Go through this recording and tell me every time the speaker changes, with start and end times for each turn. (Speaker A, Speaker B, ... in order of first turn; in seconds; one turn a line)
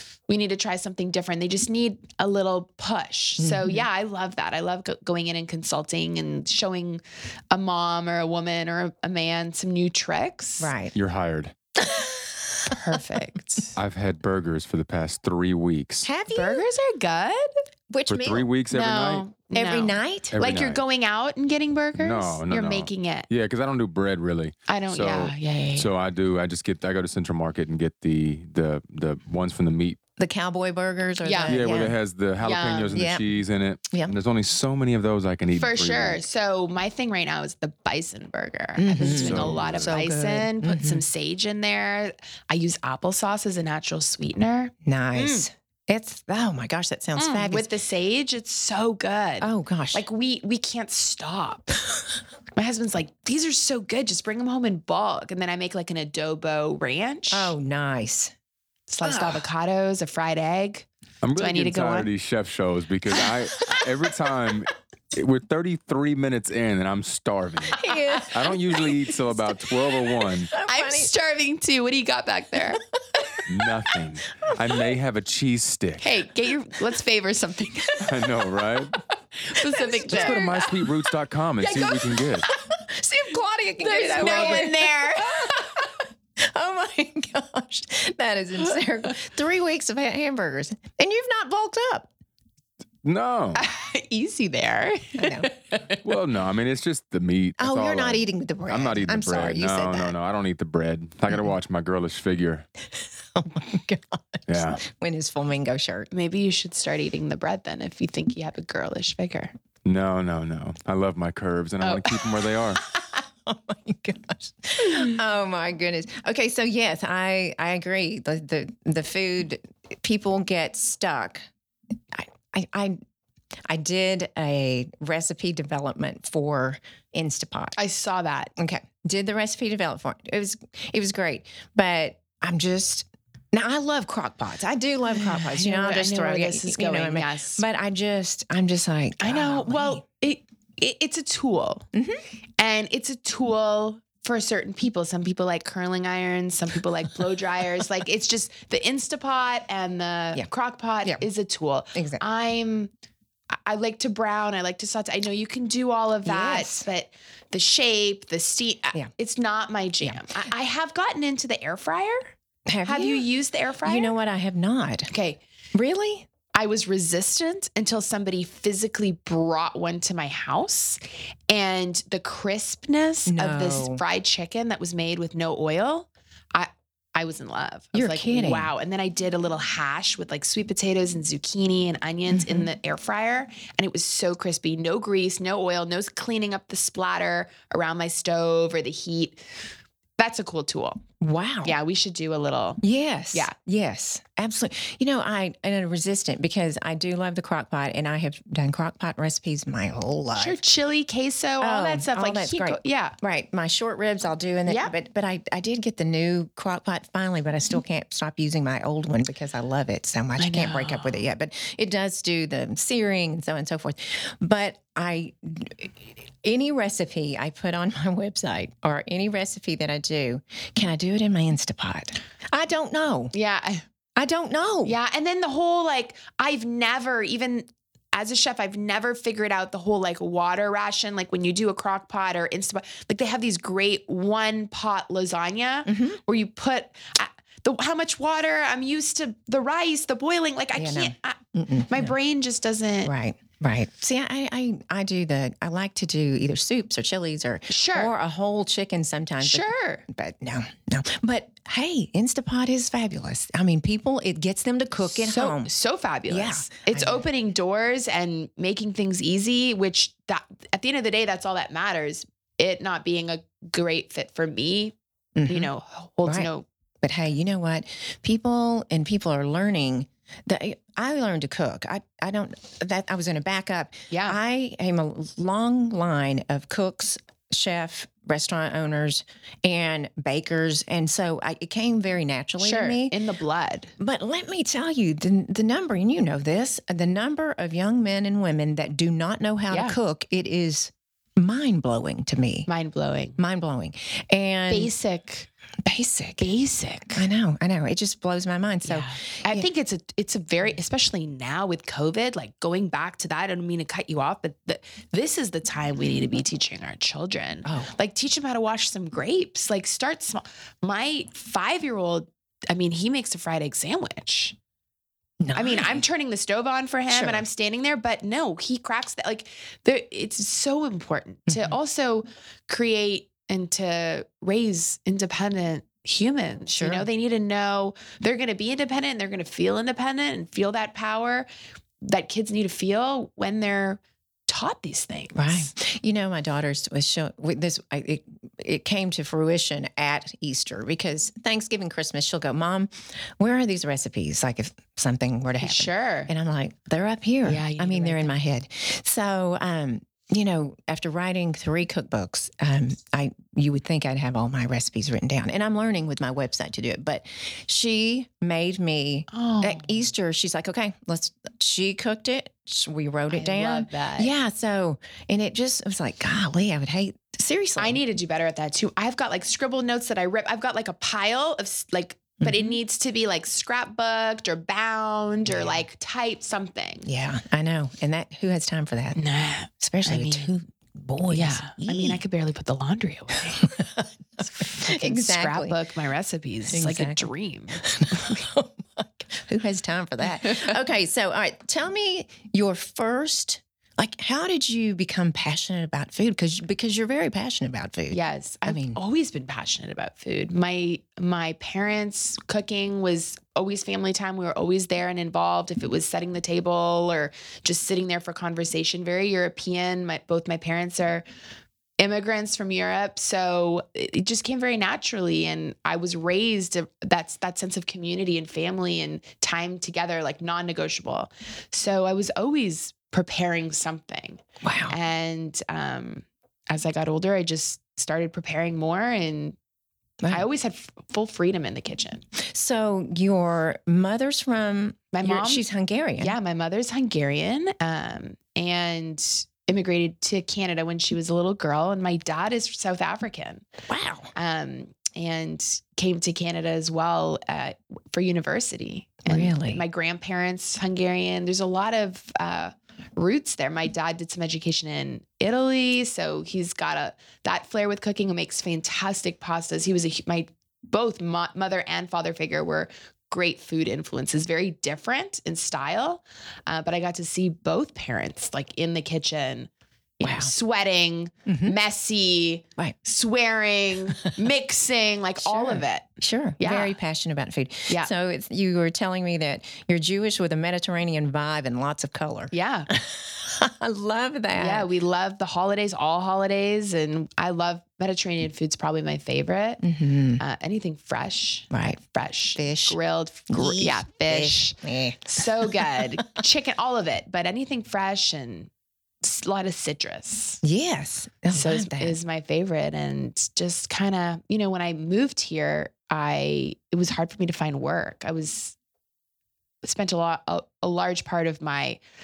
Speaker A: 0.3-10.7
Speaker B: 3.4-3.9
Speaker B: 10.6-10.9
Speaker C: 10.9-11.5
Speaker B: 11.8-13.2
Speaker A: 12.7-13.8
Speaker C: 13.8-16.1
Speaker B: 16.0-16.6
Speaker A: 16.3-17.5
Speaker B: 17.9-18.5
Speaker C: 18.1-19.2
Speaker A: 18.7-23.3
Speaker B: 19.5-20.4
Speaker C: 20.3-20.8
Speaker C: 21.9-30.0
Speaker A: 24.7-25.9
Speaker B: 30.2-31.9
Speaker A: 31.2-31.6
Speaker C: 31.5-36.2
Speaker A: 32.4-33.0
Speaker B: 32.9-33.2
Speaker A: 35.6-45.5
Speaker B: 38.8-41.0
Speaker C: 39.0-39.9
Speaker B: 44.8-47.7
Speaker A: 47.1-51.8
Speaker B: 49.4-50.1
Speaker A: 52.6-57.5
Speaker B: 57.3-58.3
Speaker A: 58.9-62.1
Speaker B: 59.0-59.4
Speaker C: 61.2-70.5
Speaker B: 67.8-68.8
Speaker A: 67.8-68.3
Speaker B: 70.1-71.1
Speaker A: 70.7-72.8
Speaker B: 73.1-73.4
Speaker C: 73.5-76.1
Speaker B: 74.4-74.8
Speaker A: 76.0-78.1
Speaker C: 78.0-79.0
Speaker A: 79.4-80.9
Speaker B: 79.7-80.4
Speaker C: 79.9-82.5
Speaker A: 81.6-82.6
Speaker B: 82.7-92.1
Speaker A: 83.8-85.8
Speaker C: 93.0-93.6
Speaker A: 93.5-96.0
Speaker B: 95.2-95.5
Speaker C: 96.0-102.6
Speaker B: 97.6-100.1
Speaker B: 103.3-106.1
Speaker C: 104.5-104.8
Speaker A: 106.1-109.5
Speaker C: 109.8-112.8
Speaker A: 111.8-112.2
Speaker B: 113.0-121.4
Speaker B: 122.1-123.0
Speaker B: 123.7-127.8
Speaker A: 127.8-128.5
Speaker B: 128.6-140.0
Speaker A: 135.3-137.6
Speaker A: 139.2-141.9
Speaker B: 141.9-142.2
Speaker A: 142.6-152.9
Speaker B: 151.9-152.2
Speaker A: 153.5-162.3
Speaker B: 156.2-156.8
Speaker B: 160.0-160.4
Speaker B: 162.7-163.3
Speaker A: 162.8-164.1
Speaker B: 163.8-165.1
Speaker A: 165.1-165.4
Speaker B: 165.7-166.3
Speaker A: 166.5-189.4
Speaker B: 173.2-174.0
Speaker B: 177.9-178.7
Speaker B: 182.3-182.7
Speaker A: 190.2-191.0
Speaker B: 191.2-191.8
Speaker A: 191.6-192.8
Speaker B: 192.8-200.6
Speaker A: 200.3-203.2
Speaker B: 201.6-223.3
Speaker A: 204.7-204.9
Speaker A: 210.4-211.2
Speaker A: 223.3-223.8
Speaker B: 224.2-225.0
Speaker A: 224.8-243.1
Speaker B: 235.8-236.2
Speaker B: 240.8-242.1
Speaker B: 243.0-255.7
Speaker A: 247.7-248.1
Speaker A: 249.4-250.0
Speaker A: 255.0-264.9
Speaker B: 256.3-257.2
Speaker B: 265.4-265.7
Speaker A: 265.5-266.6
Speaker B: 266.2-266.5
Speaker B: 267.0-283.1
Speaker A: 274.1-274.4
Speaker A: 282.6-283.9
Speaker B: 284.0-292.7
Speaker A: 289.7-290.0
Speaker A: 292.7-293.4
Speaker B: 293.4-294.9
Speaker A: 294.7-295.5
Speaker B: 295.8-296.5
Speaker A: 296.4-297.2
Speaker B: 297.1-299.6
Speaker A: 298.8-314.6
Speaker B: 307.6-307.9
Speaker B: 315.4-316.0
Speaker A: 315.5-331.5
Speaker B: 317.1-317.5
Speaker B: 321.5-321.8
Speaker B: 326.7-327.0
Speaker A: 332.0-335.7
Speaker B: 335.4-368.0
Speaker A: 345.6-346.3
Speaker A: 347.4-348.3
Speaker A: 359.3-360.0
Speaker A: 363.3-364.3
Speaker A: 367.8-377.1
Speaker B: 372.4-372.8
Speaker B: 375.5-375.8
Speaker B: 377.1-379.2
Speaker A: 379.1-380.5
Speaker B: 379.8-382.2
Speaker A: 381.3-383.7
Speaker B: 383.6-385.8
Speaker A: 384.4-388.4
Speaker B: 386.7-387.2
Speaker B: 387.8-399.0
Speaker A: 390.4-390.7
Speaker A: 398.1-411.2
Speaker A: 412.0-429.6
Speaker B: 424.6-424.9
Speaker A: 430.3-432.2
Speaker B: 432.4-436.4
Speaker A: 435.1-435.6
Speaker A: 436.2-443.6
Speaker B: 443.9-444.3
Speaker A: 444.3-477.0
Speaker B: 449.2-449.8
Speaker B: 470.2-470.5
Speaker B: 471.5-471.8
Speaker B: 475.4-484.9
Speaker A: 482.5-482.9
Speaker A: 484.5-489.8
Speaker B: 489.8-490.4
Speaker A: 490.4-498.7
Speaker B: 491.7-492.0
Speaker B: 492.6-493.0
Speaker B: 493.5-496.1
Speaker A: 499.2-500.6
Speaker B: 500.6-502.2
Speaker A: 501.5-508.8
Speaker A: 509.8-512.0